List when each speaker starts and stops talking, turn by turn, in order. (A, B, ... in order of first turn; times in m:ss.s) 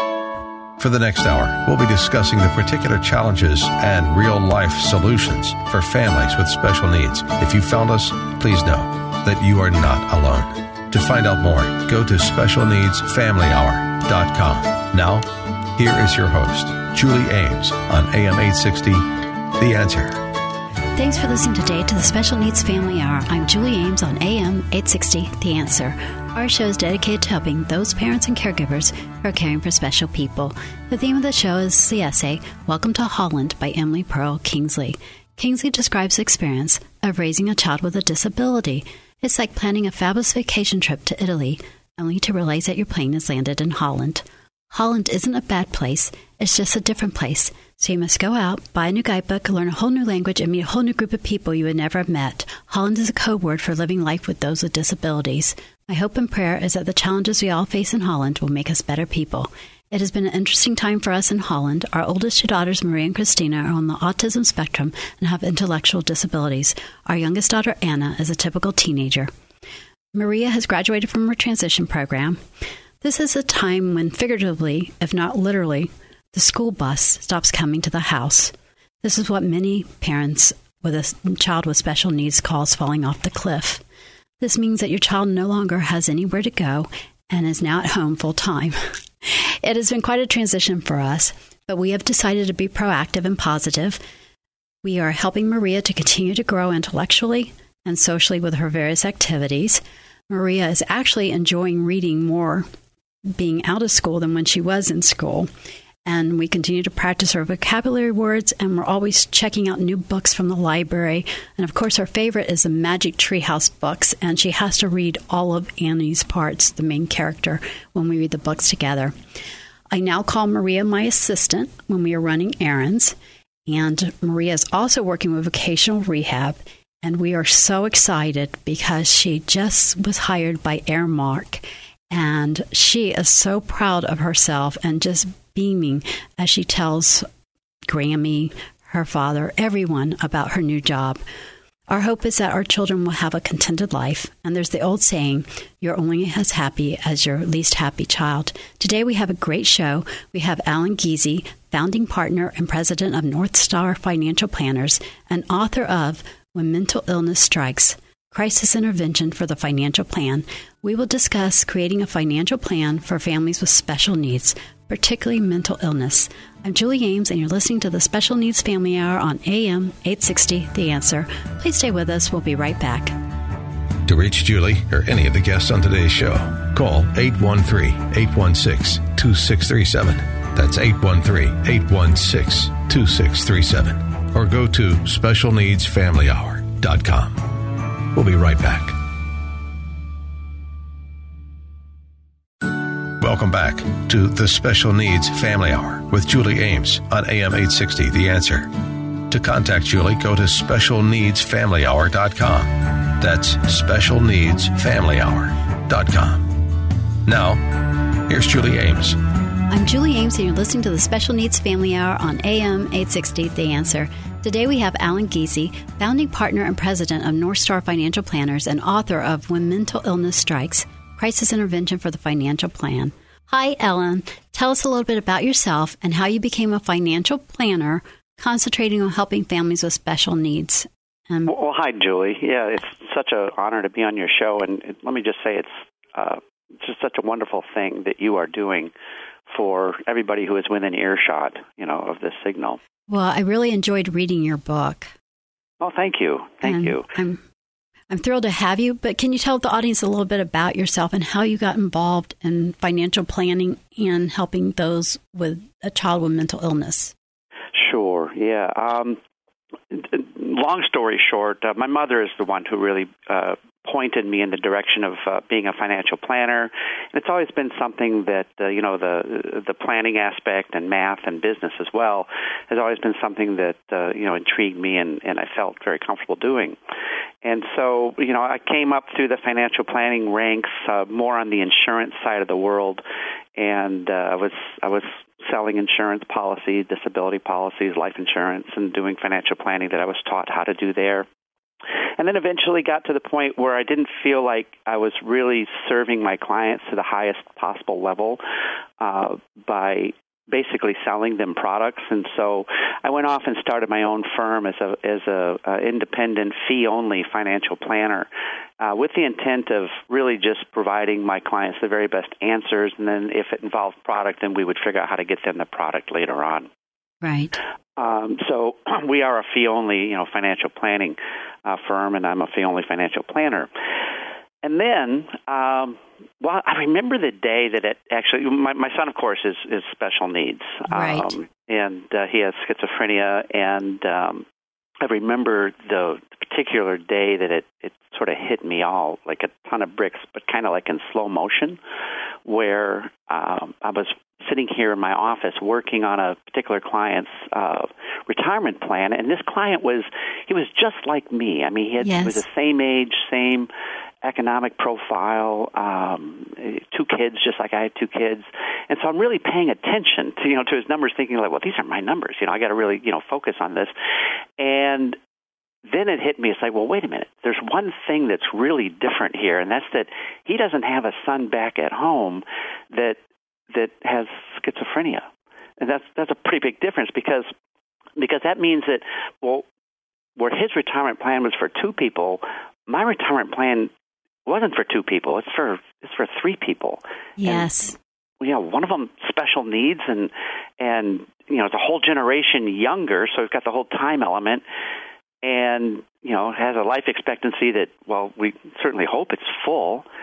0:00.8-0:20.2 A
0:21.0-1:09.3 B
1:10.1-1:12.4 B
1:13.0-1:23.8 B
1:24.4-1:34.0 B
1:34.8-1:42.6 B
1:43.3-1:45.5 B
1:46.0-1:59.1 B
1:59.9-2:03.2 B
2:03.7-2:17.2 B
2:17.9-2:21.2 B
2:21.9-2:53.2 B
2:54.0-3:07.5 A
3:08.1-3:09.0 A
3:13.2-3:18.7 A
3:19.3-3:26.6 A
3:27.2-3:29.2 A
3:29.7-3:51.5 B
3:51.4-3:58.9 C
3:59.5-4:02.8 C
4:03.1-4:05.1 B
4:05.8-4:07.1 C
4:06.6-4:07.4 B
4:08.1-4:17.1 B
4:17.7-4:19.2 C
4:19.9-4:36.8 C
4:37.4-4:43.0 C
4:43.6-4:51.3 C
4:52.2-4:58.4 C
4:59.0-5:16.7 C
5:17.2-5:17.6 B
5:18.0-5:23.7 C
5:24.6-5:34.4 C
5:30.9-5:31.3 B
5:35.0-5:41.8 C
5:42.4-5:53.7 C
5:52.0-5:52.4 B
5:54.2-6:03.9 C
6:04.6-6:05.2 C
6:05.8-6:13.2 C
6:13.7-6:15.2 C
6:15.8-6:17.5 C
6:18.2-6:19.6 C
6:20.4-6:23.9 C
6:24.4-6:27.7 C
6:27.4-6:28.0 B
6:28.4-6:34.6 C
6:35.4-6:40.0 C